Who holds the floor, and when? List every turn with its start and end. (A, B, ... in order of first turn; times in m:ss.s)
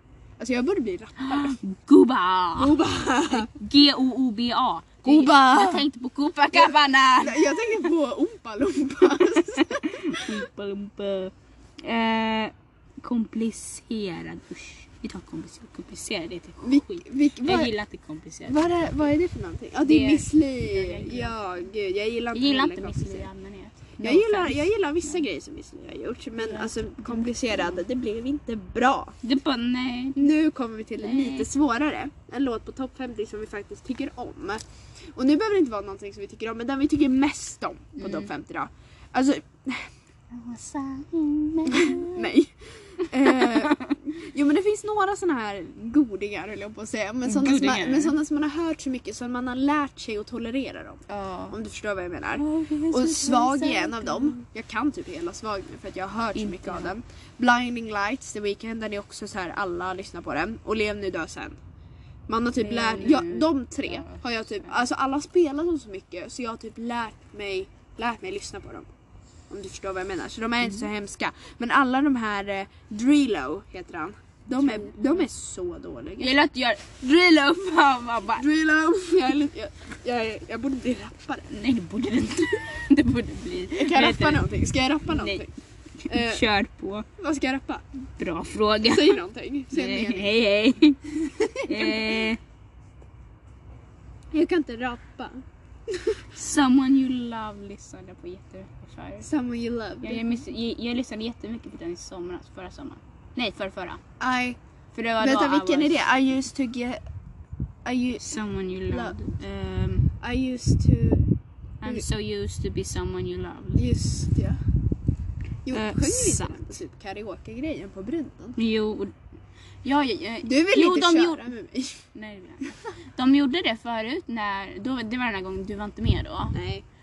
0:00.4-0:01.6 A
0:01.2-0:02.8 B
0:02.6-0:03.5 A
0:03.3-0:07.6 B
0:05.0-0:05.9 A
0:06.5-0:10.3 A
0:09.4-0:18.7 B
0:16.6-0:17.7 A
0:18.5-0:23.3 A
0:19.8-0:21.4 B
0:22.3-0:25.2 B
0:24.0-0:29.2 A
0:26.4-0:27.8 B
0:29.2-0:30.3 B
0:30.2-0:34.6 A
0:31.0-0:31.5 B
0:35.1-0:39.9 A
0:38.0-0:38.3 B
0:40.3-0:42.2 B
0:41.7-1:01.6 A
0:43.2-0:44.0 B
0:47.2-0:48.2 B
0:51.1-0:51.6 B
0:52.4-0:54.4 B
0:56.3-0:56.9 B
1:02.3-1:08.9 A
1:02.6-1:04.7 B
1:09.5-1:16.3 A
1:14.6-1:15.2 B
1:16.2-1:18.5 B
1:18.4-1:21.4 A
1:21.5-1:24.5 B
1:23.7-1:25.5 A
1:25.1-1:25.4 B
1:26.0-1:27.1 B
1:26.1-1:26.4 A
1:27.2-1:27.8 A
1:28.2-1:32.4 B
1:28.8-1:30.3 A
1:31.2-1:32.3 A
1:34.3-1:36.2 A
1:36.3-1:39.3 B
1:39.2-1:40.4 A
1:40.0-1:44.0 B
1:44.2-1:44.6 A
1:44.9-1:46.0 B
1:45.2-1:47.0 A
1:47.8-1:48.4 A
1:48.2-1:50.0 B
1:48.9-1:49.2 A
1:50.2-1:51.3 A
1:51.8-1:53.8 B
1:53.7-1:54.6 A
1:55.6-1:58.6 A
1:55.7-1:56.7 B
1:58.6-1:59.1 B
1:59.8-2:01.5 B
2:00.4-2:02.0 A
2:02.1-2:06.5 B
2:06.5-2:06.8 A